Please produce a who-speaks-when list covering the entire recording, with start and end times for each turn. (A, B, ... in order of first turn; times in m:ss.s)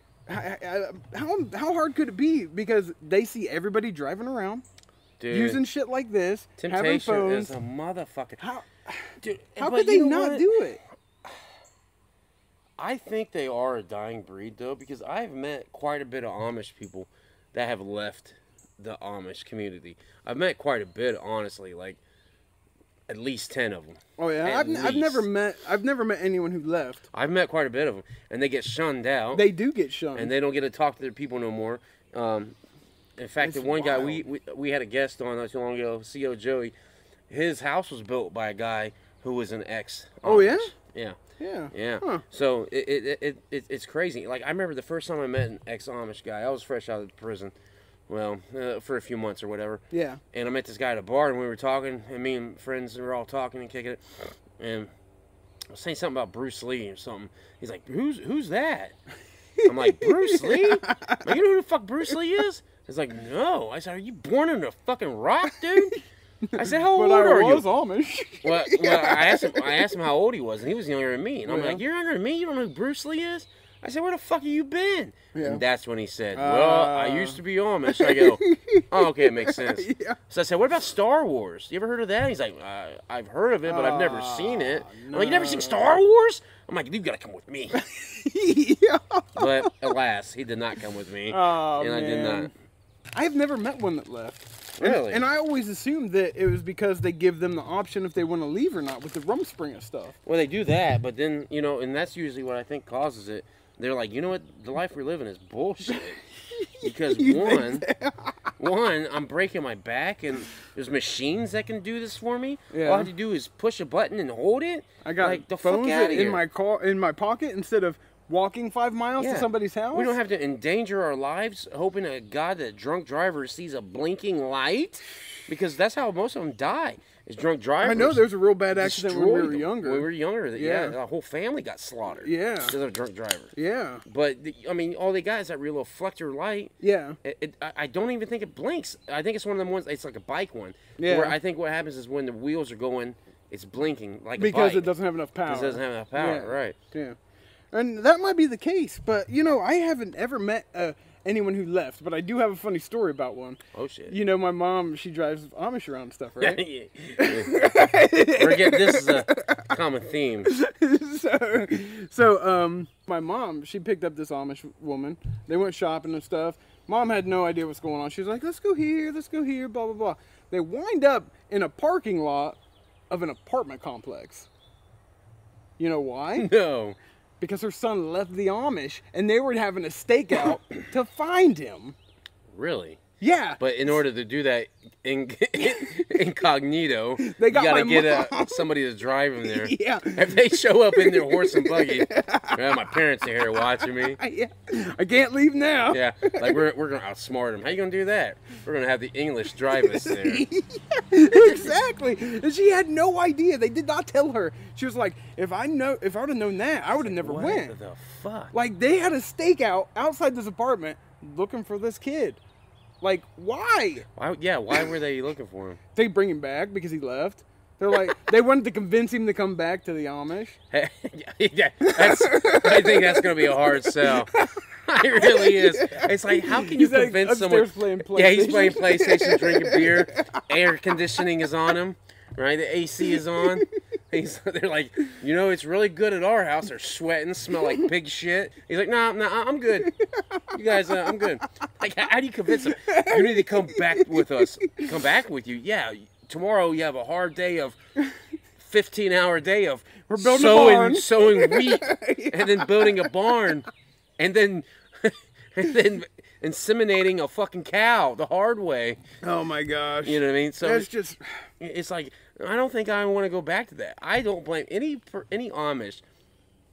0:00.3-0:04.6 A
0:05.2-0:05.6 B
0:05.3-0:07.5 A
0:06.6-0:08.4 B
0:08.4-0:10.8 A
0:09.2-0:10.5 B
0:12.8-0:22.0 B
0:23.1-0:25.3 B
0:24.2-0:27.0 A
0:27.1-0:29.4 B
0:29.3-0:30.3 A
0:30.1-0:32.6 B
0:33.2-0:36.7 B
0:33.4-0:34.2 A
0:37.3-0:41.2 B
0:40.2-0:40.7 A
0:41.4-0:42.2 A
0:41.7-0:47.5 B
0:48.1-0:54.0 B
0:49.9-0:50.2 A
0:54.6-0:54.9 B
0:55.7-0:59.0 B
0:59.6-1:01.2 A
0:59.6-1:05.9 B
1:05.5-1:09.9 A
1:06.6-1:07.7 B
1:08.4-1:27.8 B
1:11.5-1:11.8 A
1:15.3-1:15.6 A
1:16.3-1:20.2 A
1:23.6-1:25.9 A
1:27.7-1:30.0 A
1:29.4-1:32.5 B
1:31.3-1:32.5 A
1:33.1-1:40.2 A
1:34.8-1:35.2 B
1:40.2-1:46.2 B
1:46.5-1:48.4 A
1:46.8-1:47.8 B
1:48.6-1:56.4 B
1:52.7-1:53.1 A
1:55.0-2:00.2 A
1:59.2-2:08.2 B
2:07.8-2:11.0 A
2:08.7-2:13.5 B
2:12.2-2:12.8 A
2:13.5-2:14.0 A
2:14.0-2:16.7 B
2:16.8-2:17.2 A
2:17.2-2:24.9 B
2:21.0-2:21.4 A
2:24.4-2:27.2 A
2:25.4-2:26.8 B
2:27.7-2:36.6 A
2:33.7-2:34.2 B
2:36.4-2:40.5 B
2:37.2-2:39.6 A
2:40.4-2:52.6 A
2:53.1-2:54.5 A
2:55.8-2:56.5 A
2:56.4-2:57.0 B
2:57.4-3:02.0 A
3:02.5-3:03.0 B
3:03.2-3:03.6 A
3:03.6-3:14.2 B
3:05.6-3:05.9 A
3:07.2-3:08.7 A
3:09.4-3:12.9 A
3:13.5-3:16.6 A
3:15.9-3:20.4 B
3:19.8-3:27.7 A
3:26.9-3:28.5 B
3:28.5-3:32.4 A
3:33.0-3:34.0 A
3:34.2-3:35.8 B
3:35.9-3:40.6 A
3:40.7-3:44.3 B
3:41.8-3:44.6 A
3:44.8-3:59.9 B
3:45.2-3:50.4 A
3:53.0-3:53.6 A
3:57.6-3:57.8 A
3:59.8-4:00.2 A
4:00.5-4:07.8 B
4:00.9-4:01.3 A
4:02.5-4:04.9 A
4:08.6-4:13.6 B
4:10.1-4:13.5 A
4:14.2-4:19.0 B
4:19.2-4:21.4 A
4:20.0-4:20.9 B
4:21.6-4:26.0 B